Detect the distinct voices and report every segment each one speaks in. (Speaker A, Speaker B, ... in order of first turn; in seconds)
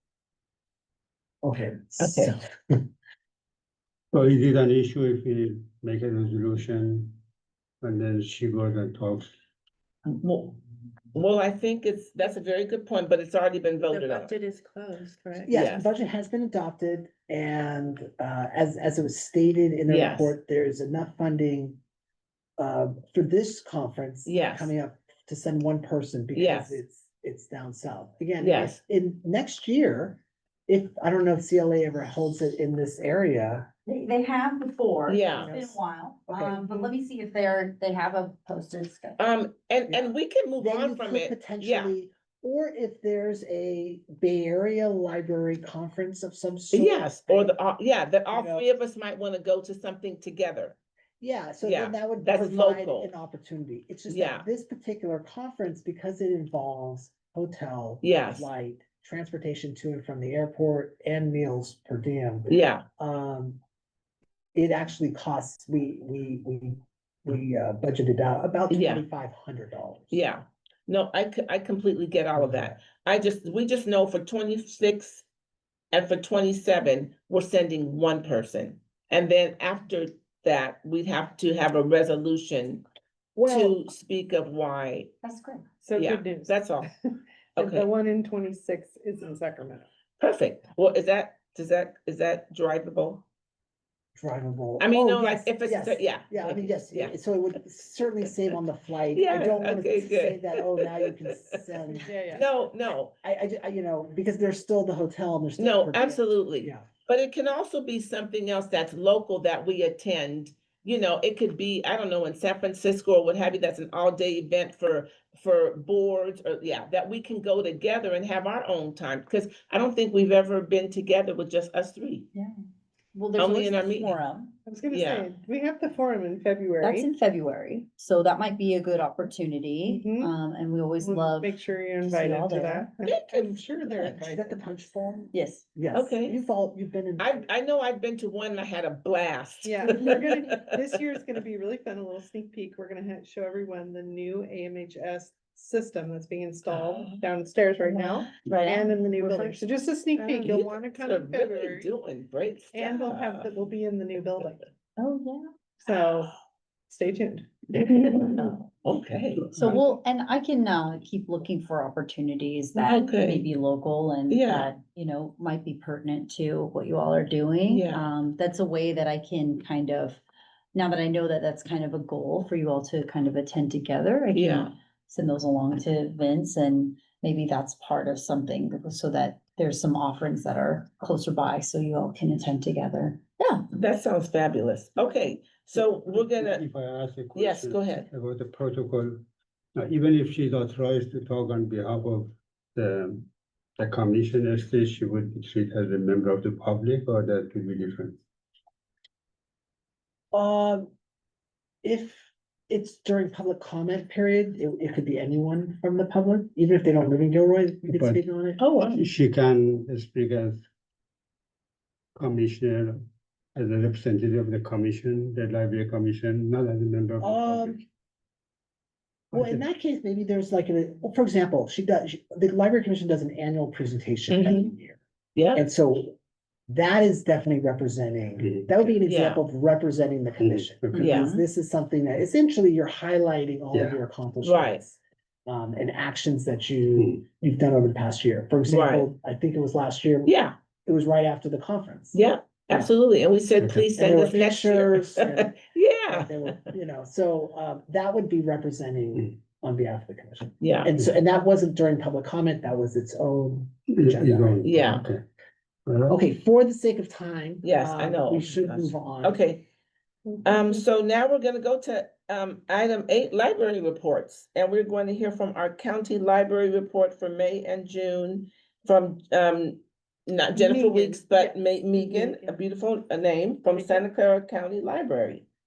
Speaker A: 1.4-2.8, 15.5-21.8, 22.6-33.7, 36.3-36.6, 39.9-47.5, 48.3-48.6, 51.2-63.6, 64.5-70.2, 72.4-72.7, 83.4-83.8, 94.2-102.5, 103.2-106.8, 134.0-137.5, 200.3-200.9, 201.8-208.6, 217.2-217.8, 219.3-225.0, 225.5-226.2, 226.7-240.3, 240.9-242.2, 244.0-254.6, 256.1-259.4
Speaker B: 2.0-2.3, 10.1-10.6, 11.1-14.3, 15.5-15.9, 19.9-20.3, 24.2-24.7, 26.3-26.8, 28.4-28.8, 35.1-35.8, 39.2-41.9, 46.7-50.8, 51.6-53.1, 54.1-54.5, 58.0-58.5, 62.5-62.8, 68.7-69.0, 70.1-75.2, 75.9-82.8, 83.5-85.1, 85.9-86.9, 87.5-87.9, 90.2-93.2, 94.8-97.1, 99.1-100.8, 102.3-103.1, 105.6-122.3, 123.4-124.2, 124.9-125.3, 133.1-133.5, 135.9-136.4, 137.2-140.8, 146.7-147.2, 150.2-153.5, 157.8-159.8, 162.8-163.4, 164.3-164.7, 167.7-168.1, 174.3-174.7, 183.7-186.6, 187.3-188.1, 224.3-224.7, 225.3-225.6, 229.1-229.4, 231.0-231.3, 234.4-234.8, 238.7-239.1, 240.2-240.6, 242.1-246.5, 250.6-250.9, 254.6-255.0, 257.6-259.6, 260.4-275.4
Speaker C: 4.1-7.2, 7.8-9.3, 185.9-189.2, 189.8-193.3, 193.8-198.2, 207.9-208.2, 208.8-210.7, 212.2-213.0, 213.5-217.8, 219.3-219.6, 228.4-228.9, 230.4-231.1, 243.6-243.9, 253.9-255.2, 255.9-256.2
Speaker D: 14.2-15.4, 33.9-39.2, 85.2-85.6, 123.1-124.5, 126.8-132.9, 135.3-135.7, 147.9-149.6, 155.0-155.4, 159.6-170.2, 170.7-183.6, 230.9-231.4
Speaker E: 85.8-86.9, 87.5-89.9, 101.9-102.5, 124.7-127.1, 129.8-130.3, 131.0-134.3, 139.7-151.9, 152.7-154.7, 155.8-156.3, 156.9-158.3, 260.2-260.8, 270.5-272.6, 273.8-274.1